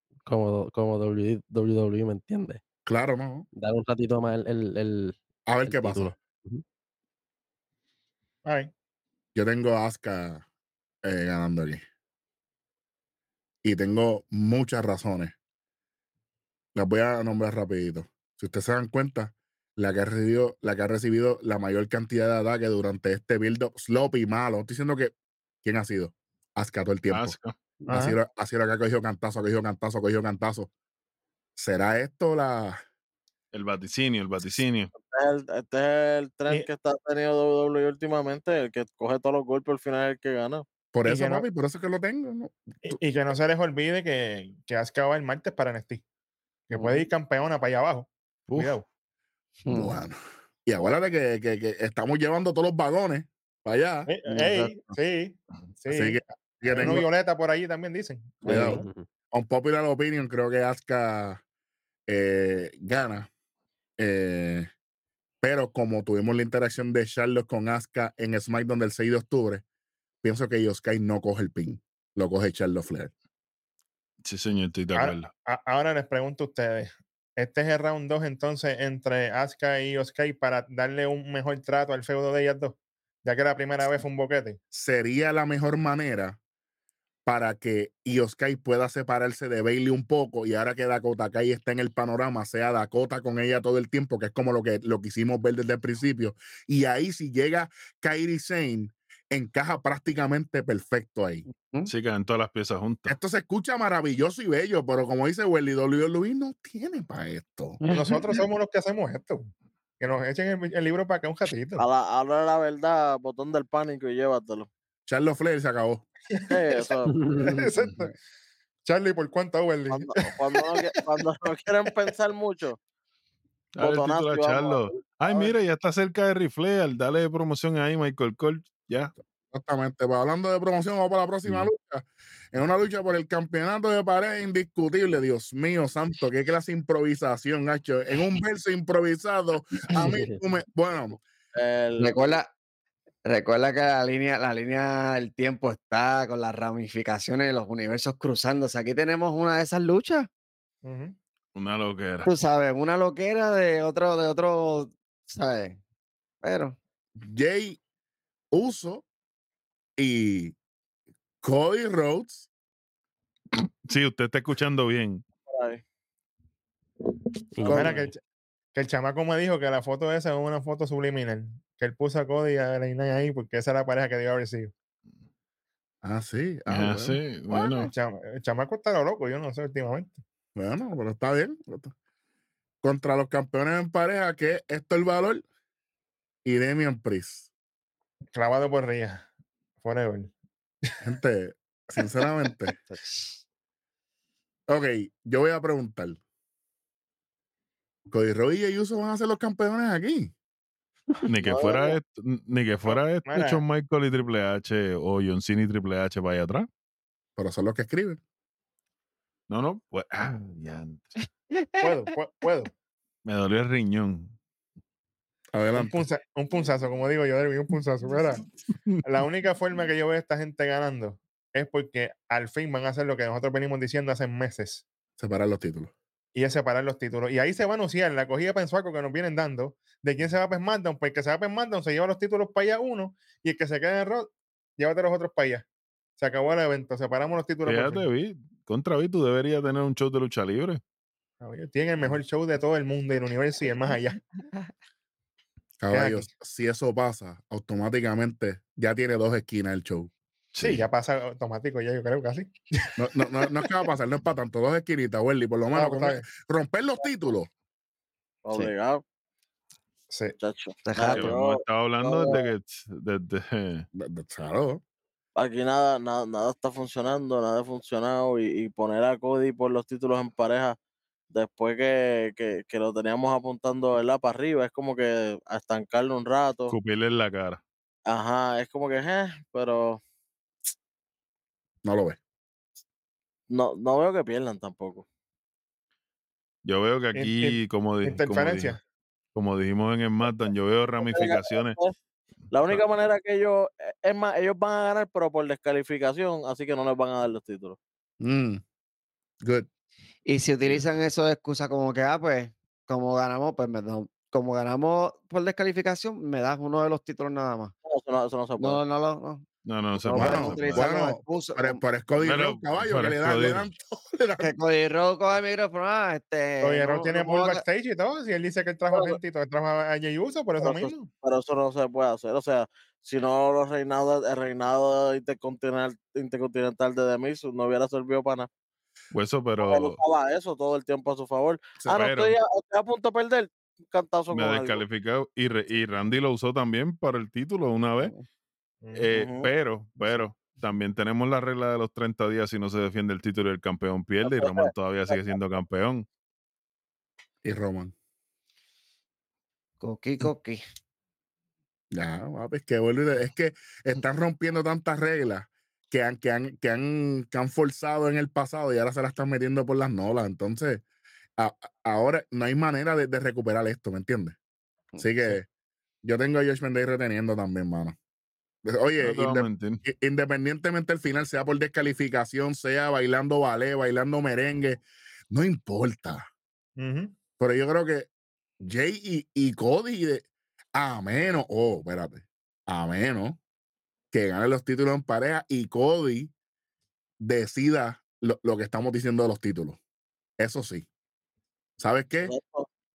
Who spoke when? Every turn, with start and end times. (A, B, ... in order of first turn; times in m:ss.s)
0:00.3-0:02.6 A
0:02.9-0:03.5 B
0:03.6-0:06.6 A
0:05.5-0:06.1 B
0:08.4-0:08.7 C
0:09.4-0:10.4 B
0:11.0-0:11.8 B
0:13.6-0:15.4 B
0:16.8-0:27.4 B
0:27.1-0:27.6 D
0:27.9-0:28.2 C
0:27.9-0:30.7 B
0:31.6-0:32.8 B
0:33.5-0:34.9 D
0:35.0-0:40.6 E
0:40.9-0:43.0 B
0:41.0-0:41.5 C
0:42.8-0:46.0 C
0:46.7-0:48.9 C
0:46.7-0:47.0 F
0:48.5-0:48.8 D
0:49.6-0:50.0 F
0:49.7-0:54.1 B
0:54.1-0:58.8 C
0:54.3-0:54.7 F
0:55.9-0:57.1 B
0:58.4-1:01.4 B
0:58.4-0:58.8 F
0:58.5-0:59.1 A
1:02.1-1:03.3 B
1:04.0-1:04.7 B
1:05.4-1:09.6 B
1:10.2-1:13.1 B
1:14.2-1:15.3 D
1:14.9-1:24.6 C
1:24.7-1:26.4 B
1:27.2-1:41.4 B
1:41.5-1:41.9 F
1:41.9-1:43.2 D
1:43.1-1:47.8 B
1:47.9-1:51.8 C
1:51.8-1:54.7 E
1:55.1-1:56.1 B
1:56.3-1:58.1 C
1:56.5-1:57.2 E
1:57.1-1:57.7 A
1:58.8-2:00.8 C
1:59.9-2:02.8 E
2:03.8-2:09.1 D
2:03.8-2:05.5 E
2:09.5-2:21.2 B
2:20.0-2:20.4 A
2:21.6-2:22.4 E
2:22.0-2:22.5 F
2:23.2-2:30.3 F
2:30.8-2:31.2 C
2:31.6-2:32.3 D
2:32.2-2:35.8 F
2:36.4-2:36.8 F
2:37.2-2:37.8 B
2:38.5-2:39.0 B
2:40.0-2:40.6 B
2:41.4-2:42.5 B
2:43.5-2:45.2 D
2:45.5-2:45.8 E
2:47.6-2:48.0 A
2:47.6-2:48.0 B
2:47.6-2:48.2 C
2:48.7-2:54.7 C
2:56.0-2:57.2 B
2:56.7-2:57.9 D
2:57.5-3:00.2 C
3:00.6-3:01.9 B
3:02.8-3:05.4 B
3:06.4-3:07.5 B
3:08.3-3:09.3 C
3:09.8-3:10.3 C
3:11.0-3:12.8 B
3:12.9-3:13.4 F
3:14.7-3:16.2 B
3:18.1-3:20.3 B
3:21.2-3:26.7 D
3:21.4-3:22.0 E
3:22.9-3:23.6 C
3:27.4-3:28.2 B
3:29.5-3:31.1 D
3:31.8-3:32.7 C
3:33.2-3:34.4 D
3:35.5-3:36.0 B
3:35.7-3:38.4 C
3:39.0-3:44.8 C
3:45.2-3:45.9 B
3:46.3-3:55.7 C
3:56.2-3:58.1 C
3:57.6-4:00.8 D
4:01.4-4:04.2 C
4:05.8-4:10.1 B
4:05.9-4:06.3 C
4:10.5-4:10.8 D
4:10.6-4:12.9 C
4:13.0-4:17.5 B
4:15.7-4:16.3 C
4:18.4-4:19.0 E
4:20.1-4:20.4 C
4:20.4-4:22.5 E
4:20.8-4:21.4 F
4:21.1-4:23.9 D
4:24.0-4:24.8 B
4:25.4-4:30.8 E
4:31.3-4:36.7 E
4:36.7-4:37.6 D
4:38.1-4:40.0 E
4:41.8-4:42.2 B
4:43.5-4:45.1 E
4:46.6-4:48.8 D
4:47.2-4:48.8 C
4:49.3-4:51.8 D
4:51.0-4:52.0 E
4:52.5-4:57.8 E
4:58.2-4:58.6 B
4:59.4-4:59.7 B
5:00.3-5:07.7 F
5:07.8-5:08.8 E
5:08.6-5:09.5 F
5:09.6-5:10.9 D
5:10.0-5:11.8 F
5:10.1-5:14.5 B
5:12.2-5:13.7 D
5:14.4-5:17.6 F
5:16.6-5:21.1 C
5:18.9-5:19.2 E
5:20.6-5:28.5 E
5:29.1-5:30.0 D
5:29.6-5:34.8 E
5:31.9-5:32.4 D
5:34.3-5:38.1 D
5:38.8-5:39.1 C
5:39.0-5:46.1 D
5:39.1-5:39.5 E
5:44.2-5:45.2 E
5:47.4-5:47.9 B
5:49.8-5:50.6 F
5:51.9-6:00.8 B
6:01.4-6:04.4 B
6:05.0-6:05.5 B
6:06.0-6:08.0 B
6:08.6-6:16.3 B
6:09.0-6:09.8 D
6:16.8-6:17.1 C
6:17.4-6:18.1 B
6:18.6-6:23.4 B
6:24.1-6:26.3 B
6:27.2-6:29.8 B
6:30.4-6:30.9 B
6:31.8-6:32.3 B
6:32.2-6:32.7 E